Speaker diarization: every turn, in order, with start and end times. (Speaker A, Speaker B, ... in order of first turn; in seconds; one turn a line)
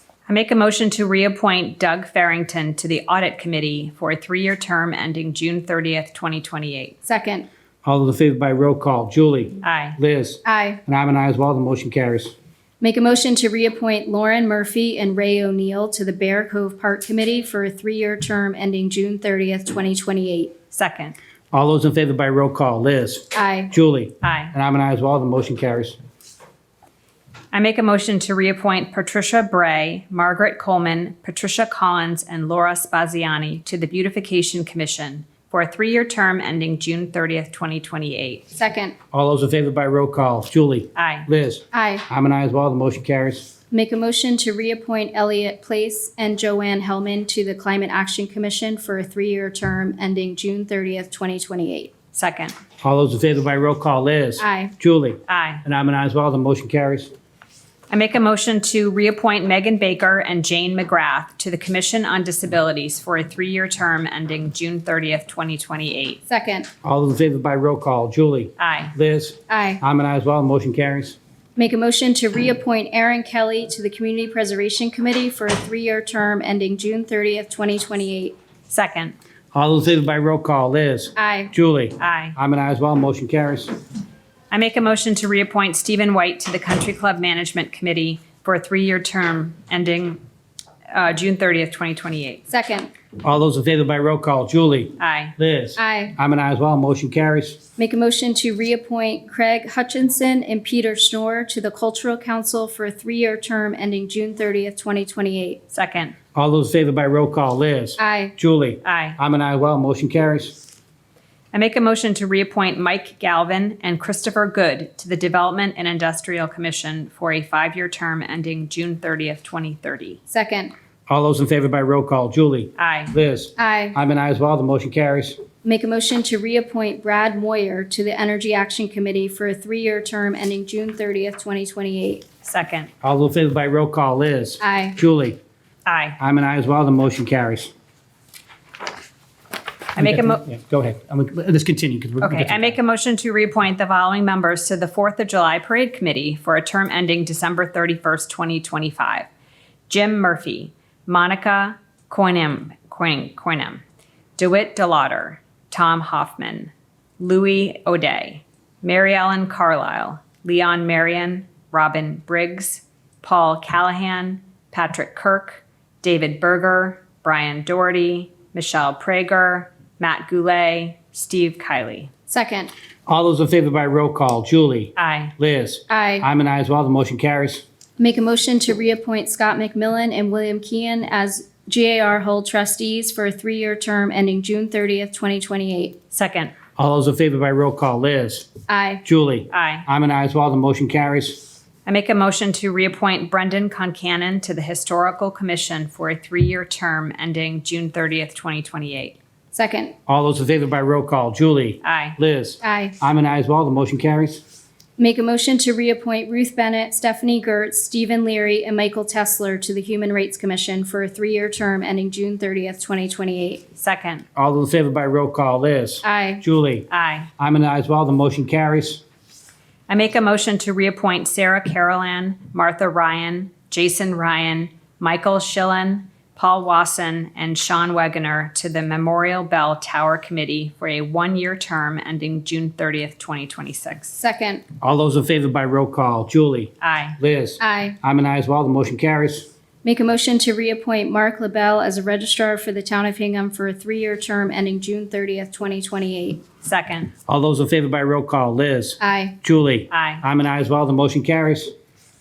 Speaker A: 0.3-6.9
Speaker B: 7.0-7.5
Speaker C: 7.8-12.3
Speaker A: 9.6-10.0
Speaker B: 10.4-10.8
Speaker B: 12.8-20.5
Speaker A: 20.7-21.1
Speaker C: 21.5-26.0
Speaker B: 23.3-23.7
Speaker A: 24.2-24.5
Speaker A: 27.5-38.4
Speaker B: 38.5-38.9
Speaker C: 39.1-43.5
Speaker A: 41.0-41.3
Speaker B: 41.7-42.0
Speaker B: 43.7-51.9
Speaker A: 52.1-52.5
Speaker C: 52.8-57.1
Speaker B: 54.4-54.7
Speaker A: 55.3-55.6
Speaker A: 57.9-66.2
Speaker B: 66.3-66.7
Speaker C: 66.8-71.2
Speaker A: 68.6-68.9
Speaker B: 69.5-69.8
Speaker B: 71.6-78.3
Speaker A: 78.7-79.2
Speaker C: 79.5-83.7
Speaker B: 81.2-81.5
Speaker A: 82.0-82.3
Speaker A: 84.5-90.2
Speaker A: 90.9-92.4
Speaker B: 92.5-92.9
Speaker C: 93.2-97.6
Speaker A: 95.0-95.3
Speaker B: 95.8-96.2
Speaker B: 97.8-105.6
Speaker A: 105.7-106.1
Speaker C: 106.3-110.5
Speaker B: 108.0-108.3
Speaker A: 108.8-109.2
Speaker A: 111.5-120.2
Speaker B: 120.3-120.7
Speaker C: 121.1-125.4
Speaker A: 122.8-123.1
Speaker B: 123.6-124.0
Speaker B: 125.6-132.2
Speaker A: 132.4-132.9
Speaker C: 133.0-135.4
Speaker B: 134.6-135.0
Speaker A: 135.8-136.2
Speaker C: 136.2-137.7
Speaker A: 139.9-140.4
Speaker C: 140.0-142.8
Speaker A: 142.2-149.3
Speaker A: 149.9-153.8
Speaker A: 154.4-172.1
Speaker B: 172.3-172.7
Speaker C: 173.1-177.6
Speaker A: 174.9-175.3
Speaker B: 175.9-176.3
Speaker B: 178.0-186.0
Speaker A: 186.1-186.5
Speaker C: 186.8-188.5
Speaker B: 188.7-189.0
Speaker C: 189.0-191.4
Speaker A: 189.5-189.9
Speaker A: 191.8-199.2
Speaker B: 199.5-199.9
Speaker C: 200.1-204.4
Speaker A: 201.8-202.2
Speaker B: 202.6-202.9
Speaker B: 205.0-213.6
Speaker A: 213.8-214.2
Speaker C: 214.3-216.9
Speaker B: 216.0-216.4
Speaker A: 216.9-217.3
Speaker C: 217.4-219.0
Speaker A: 219.9-234.1
Speaker B: 234.2-234.6
Speaker C: 234.8-239.5
Speaker A: 236.8-237.2
Speaker B: 237.6-238.0
Speaker B: 239.8-246.4
Speaker A: 246.6-247.1
Speaker C: 247.3-251.7
Speaker B: 249.0-249.3
Speaker A: 249.9-250.2